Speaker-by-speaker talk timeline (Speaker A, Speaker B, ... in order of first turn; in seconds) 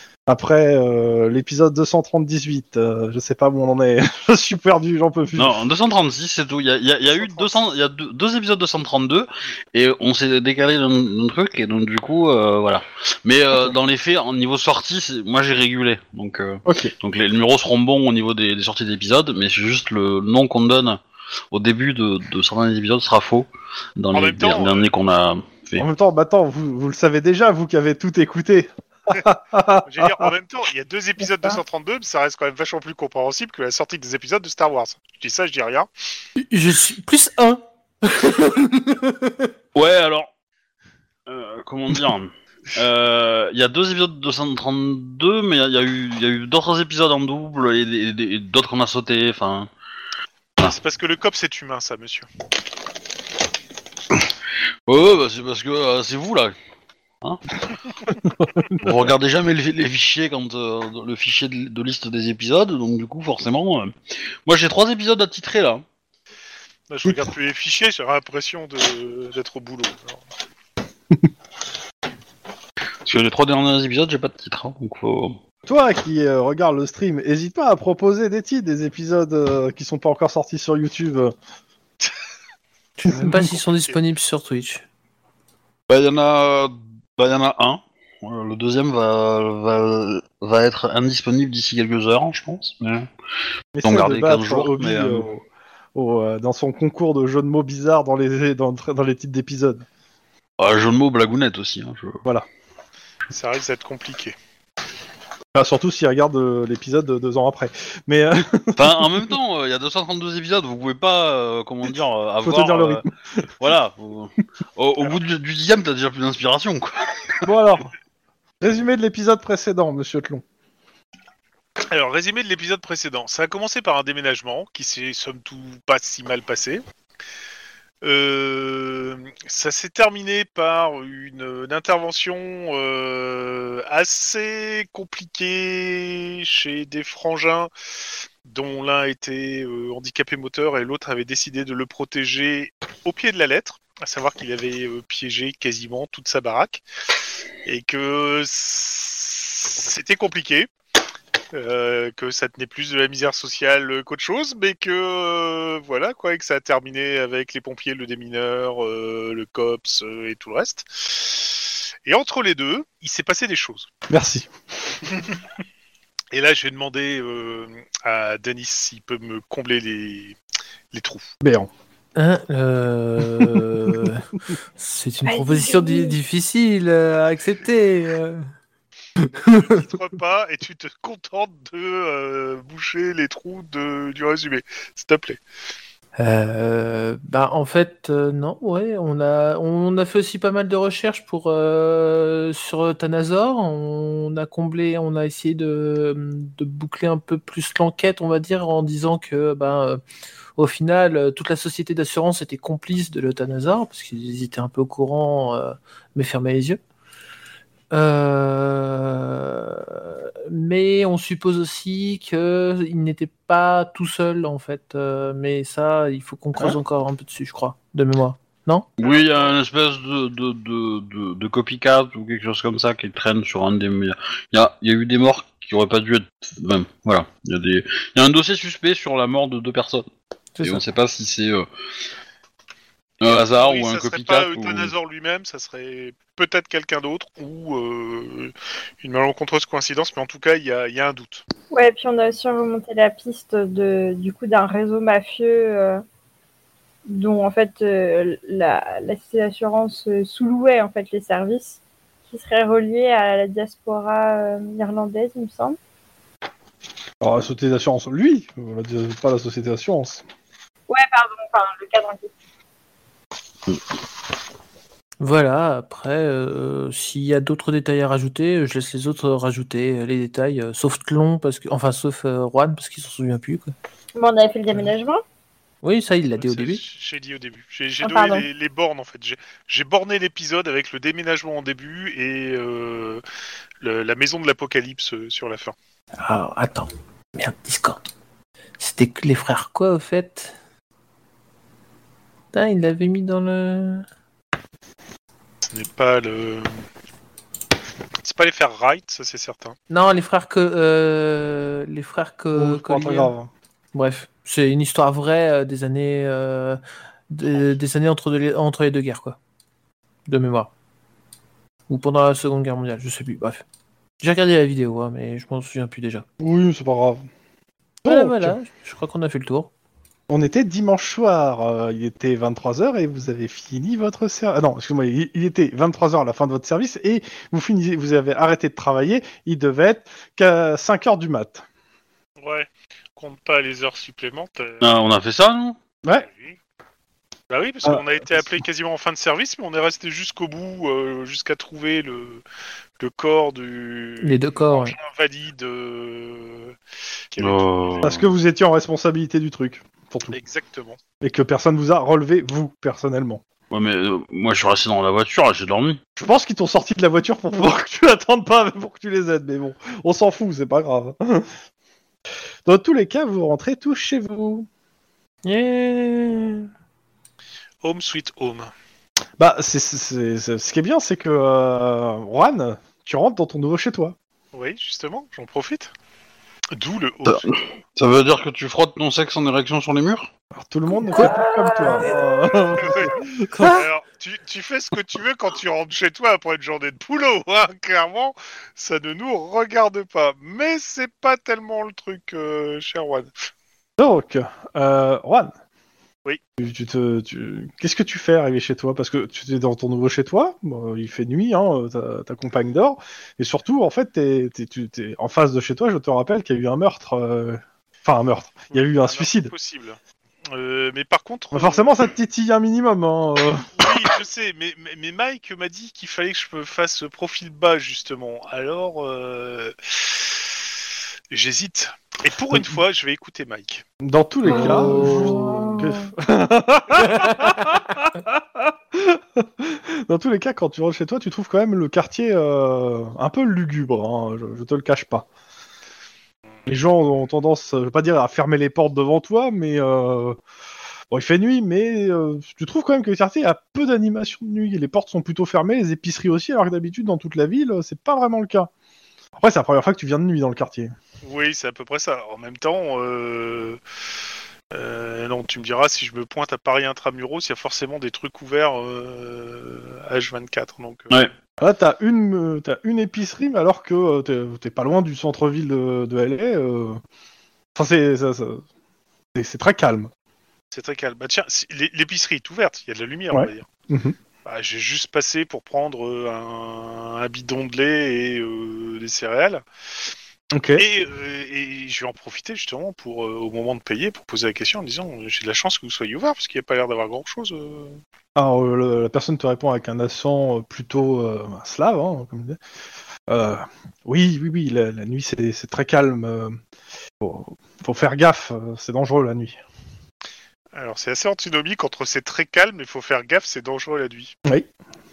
Speaker A: 0.3-5.6, 7.2-7.7, 16.6-16.9, 25.8-30.3, 58.2-59.1, 67.0-67.3, 75.7-81.3, 83.1-83.5, 93.8-95.4, 95.9-99.8, 105.5-109.3, 112.4-113.0, 117.4-117.9, 118.6-120.4, 164.1-164.5, 171.4-171.7, 257.2-260.2, 302.5-303.5, 316.4-317.2, 318.0-318.6, 320.3-331.6, 337.8-338.5, 348.0-350.4, 351.2-353.4, 356.2-361.5, 362.6-364.7, 369.4-374.1, 380.5-383.7, 394.0-395.5, 396.6-409.5, 411.5-413.9, 424.0-435.3, 436.6-440.4, 441.1-448.7, 449.3-450.9, 461.6-467.0, 467.7-468.6, 469.3-470.1, 473.3-474.1, 480.5-480.9, 488.4-492.6, 493.3-496.6, 497.2-499.6
Speaker B: 5.3-21.0, 21.5-25.8, 39.7-40.3, 41.3-49.7, 54.9-56.5, 57.2-57.6, 58.8-63.9, 64.5-65.8, 73.0-75.4, 85.9-93.1, 93.8-95.3, 100.6-102.2, 108.8-113.0, 113.6-117.4, 219.0-230.1, 230.6-231.7, 233.2-234.9, 334.8-335.8, 347.4-348.3, 353.7-356.0, 377.2-380.3
Speaker C: 24.1-24.9, 29.8-35.9, 50.6-52.3, 66.9-70.2, 103.3-104.3, 121.8-126.8, 128.0-137.7, 138.4-146.8, 147.6-150.7, 151.5-163.9, 166.3-170.4, 170.9-171.3, 179.3-185.4, 219.0-219.6, 233.2-241.4, 276.4-283.2, 283.8-285.7, 295.6-296.9, 298.2-299.8, 332.4-334.9, 336.2-336.6, 337.5-342.4, 343.0-346.8, 347.3-348.1, 350.3-351.0, 367.8-368.7, 374.5-375.9, 376.7-377.5, 382.8-383.1, 383.7-393.3, 408.7-410.0, 410.5-411.9, 413.8-420.4, 421.3-423.8, 451.2-453.8, 454.7-461.1, 470.7-473.7, 474.4-479.6, 480.8-488.0, 500.7-504.3
Speaker D: 36.4-39.5, 83.0-84.8, 172.2-174.2, 174.8-178.5, 179.2-179.8, 186.2-200.0, 200.6-206.8, 207.9-218.8, 230.6-230.8, 265.2-273.7, 275.8-276.8, 286.2-288.0, 288.8-290.6, 292.5-294.1, 299.9-303.3, 303.9-309.4, 310.3-310.7, 311.9-313.6, 314.2-316.2, 318.0-319.7, 344.2-344.9, 365.4-366.7, 381.0-382.2, 383.4-383.9, 424.5-425.8, 427.1-427.5
Speaker E: 175.2-176.2, 241.7-246.0, 247.1-255.8, 260.9-262.3, 274.1-275.2, 278.0-278.4, 381.1-382.1, 424.5-426.0